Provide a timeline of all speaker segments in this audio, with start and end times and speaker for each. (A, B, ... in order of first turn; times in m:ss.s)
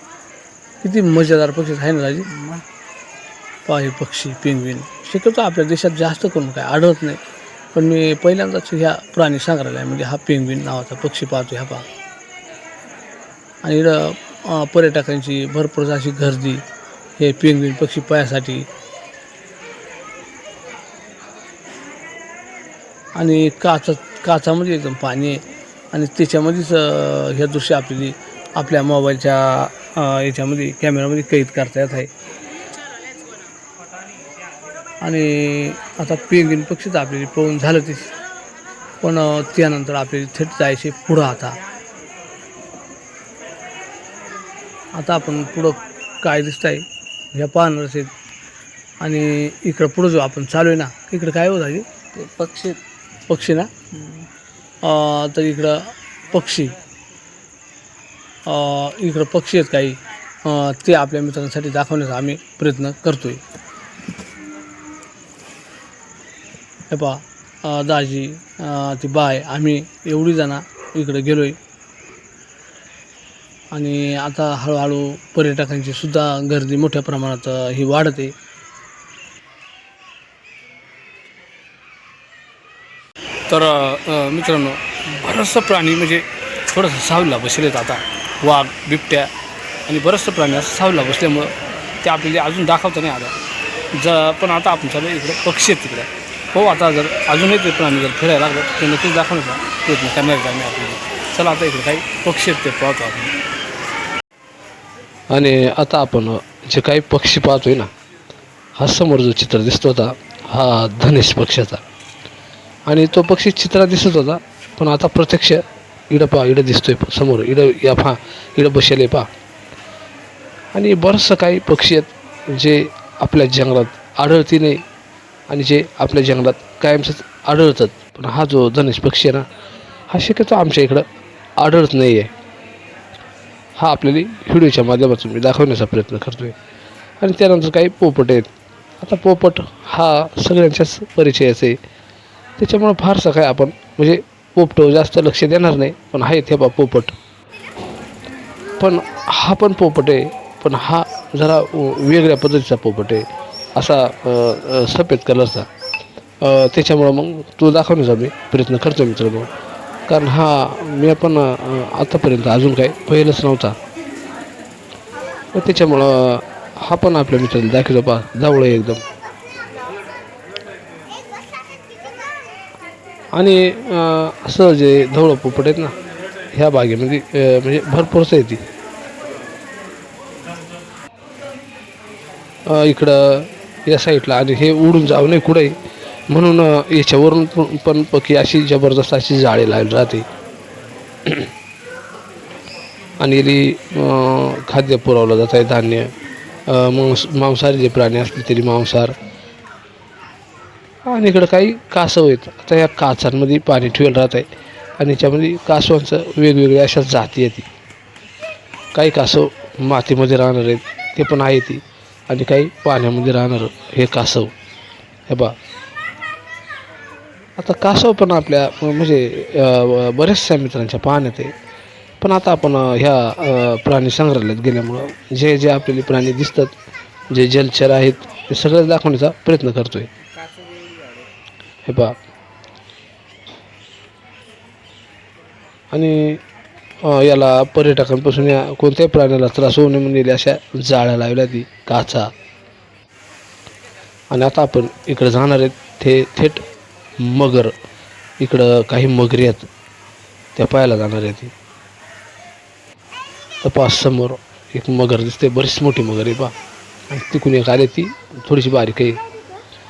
0:00.8-0:02.3 A
0:02.3-0:02.6 B
0:03.7-0:07.2 A
0:07.7-0:11.9 A
0:13.6-0:16.6 A
0:17.2-0:18.7 A
0:23.2-0:32.1 A
0:35.0-0:38.1 A
0:39.0-0:41.6 A
0:44.9-0:48.1 A
0:49.0-0:51.8 A
0:52.2-0:52.8 B
0:53.3-0:53.7 A
0:53.9-0:54.3 B
0:54.8-0:56.8 A
0:58.5-1:03.4 A
1:06.9-1:11.6 A
1:13.7-1:18.3 A
1:23.5-1:29.3 A
1:29.9-1:31.5 A
1:32.0-1:33.3 A
1:34.0-1:43.3 A
1:45.3-1:47.9 C
1:48.8-1:51.8 C
1:52.9-1:59.3 C
2:00.7-2:04.8 C
2:05.5-2:09.4 C
2:10.1-2:11.0 C
2:11.6-2:12.3 C
2:13.8-2:16.6 C
2:17.2-2:18.5 C
2:19.0-2:21.8 C
2:22.6-2:27.2 C
2:28.8-2:33.2 C
2:33.8-2:35.7 C
2:36.4-2:39.5 C
2:40.1-2:43.8 C
2:45.5-2:49.0 C
2:53.3-2:55.9 C
2:56.5-2:58.6 C
3:02.7-3:05.8 C
3:06.3-3:10.2 C
3:13.2-3:16.1 C
3:16.7-3:19.2 C
3:21.1-3:24.5 C
3:25.0-3:27.7 C
3:28.9-3:34.5 C
3:35.3-3:35.6 C
3:37.6-3:41.5 C
3:42.2-3:46.7 C
3:47.3-3:50.1 C
3:50.4-3:51.2 B
3:51.9-3:52.2 C
3:55.9-3:56.4 C
3:57.0-4:02.3 C
4:04.3-4:06.6 C
4:07.2-4:07.7 C
4:08.4-4:09.7 C
4:10.6-4:11.5 C
4:13.6-4:16.5 C
4:17.1-4:19.2 C